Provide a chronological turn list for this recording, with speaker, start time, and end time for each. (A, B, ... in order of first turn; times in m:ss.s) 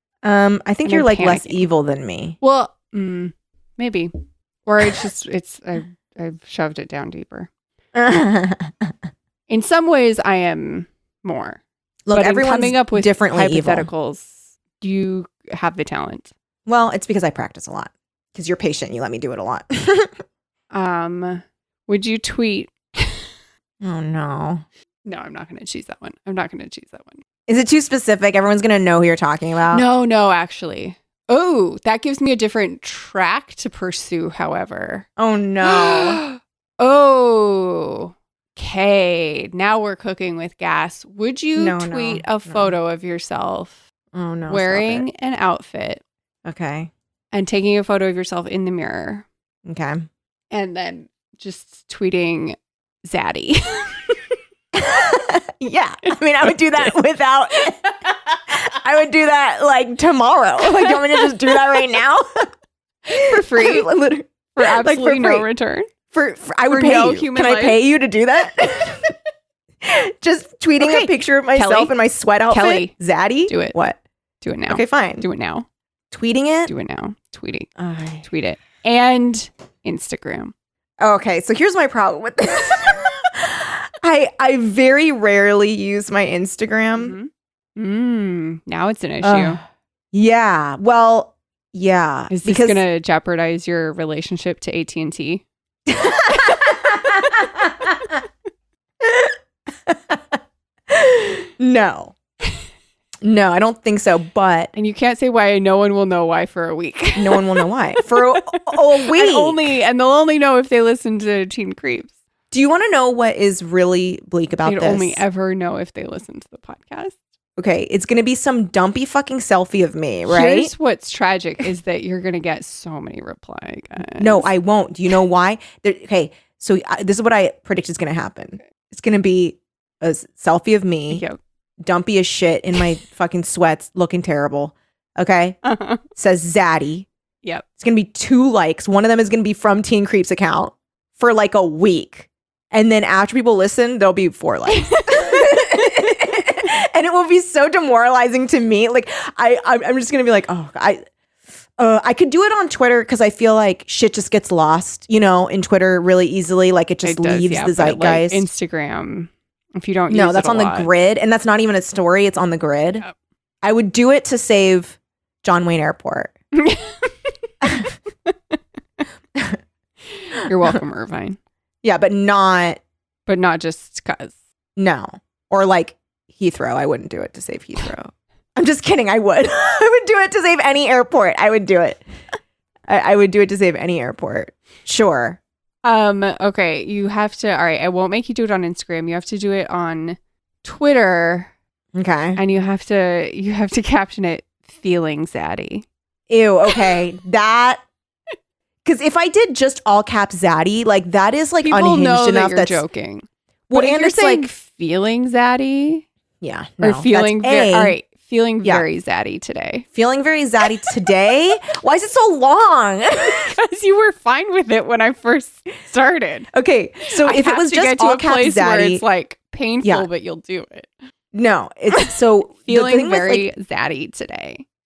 0:00.2-0:02.4 A
0:00.8-0:01.7 B
0:02.4-0:04.1 B
0:04.7-0:07.5 B
0:07.9-0:08.9 A
0:09.5-0:11.6 B
0:12.1-0:13.9 A
0:12.1-0:16.3 B
0:16.7-0:20.2 A
0:20.7-0:23.3 B
0:23.8-0:24.6 A
0:25.0-0:27.2 B
0:27.5-0:29.8 A
0:29.7-0:35.1 B
0:35.2-0:36.2 A
0:35.6-0:43.8 B
0:41.6-0:42.8 A
0:44.1-0:45.0 A
0:44.5-0:46.0 B
0:46.4-0:46.9 A
0:47.3-0:49.3 B
0:49.7-0:50.1 A
0:50.5-0:54.2 B
0:54.7-0:57.9 A
0:58.5-1:02.5 A
1:03.1-1:03.9 B
1:03.1-1:05.5 A
1:04.5-1:05.9 B
1:06.1-1:09.1 A
1:06.7-1:07.8 B
1:09.8-1:14.0 A
1:10.8-1:11.9 B
1:12.5-1:12.9 B
1:13.5-1:13.8 B
1:14.4-1:15.7 B
1:14.7-1:15.2 A
1:16.1-1:16.7 A
1:16.7-1:17.7 B
1:17.8-1:18.2 A
1:18.2-1:20.5 B
1:21.0-1:27.1 A
1:27.0-1:29.6 B
1:29.2-1:29.6 A
1:30.1-1:32.8 A
1:32.3-1:35.4 B
1:35.9-1:38.2 A
1:39.0-1:39.4 A
1:39.9-1:42.1 A
1:43.2-1:44.7 A
1:44.8-1:52.1 B
1:47.2-1:49.7 A
1:52.5-1:55.2 A
1:54.6-1:57.2 B
1:57.6-2:00.7 A
2:00.3-2:04.4 B
2:04.1-2:11.2 A
2:11.1-2:11.4 B
2:11.8-2:15.6 A
2:15.6-2:16.0 B
2:16.1-2:17.1 A
2:17.8-2:31.0 A
2:24.7-2:25.8 B
2:31.8-2:38.5 A
2:37.0-2:40.9 B
2:40.1-2:43.0 A
2:43.6-2:46.3 A
2:46.6-2:47.1 B
2:48.3-2:48.5 B
2:50.2-2:51.4 B
2:51.8-2:52.8 A
2:53.3-2:54.4 B
2:54.8-3:02.0 A
3:02.9-3:05.4 A
3:05.8-3:11.5 B
3:12.0-3:12.4 A
3:12.4-3:15.9 B
3:16.3-3:17.8 A
3:18.8-3:22.8 A
3:21.6-3:26.1 B
3:23.7-3:24.5 A
3:26.4-3:28.0 A
3:26.8-3:29.9 B
3:29.9-3:33.6 A
3:33.2-3:36.5 B
3:36.5-3:39.0 A
3:37.1-3:40.9 B
3:41.3-3:43.5 A
3:42.6-3:44.6 B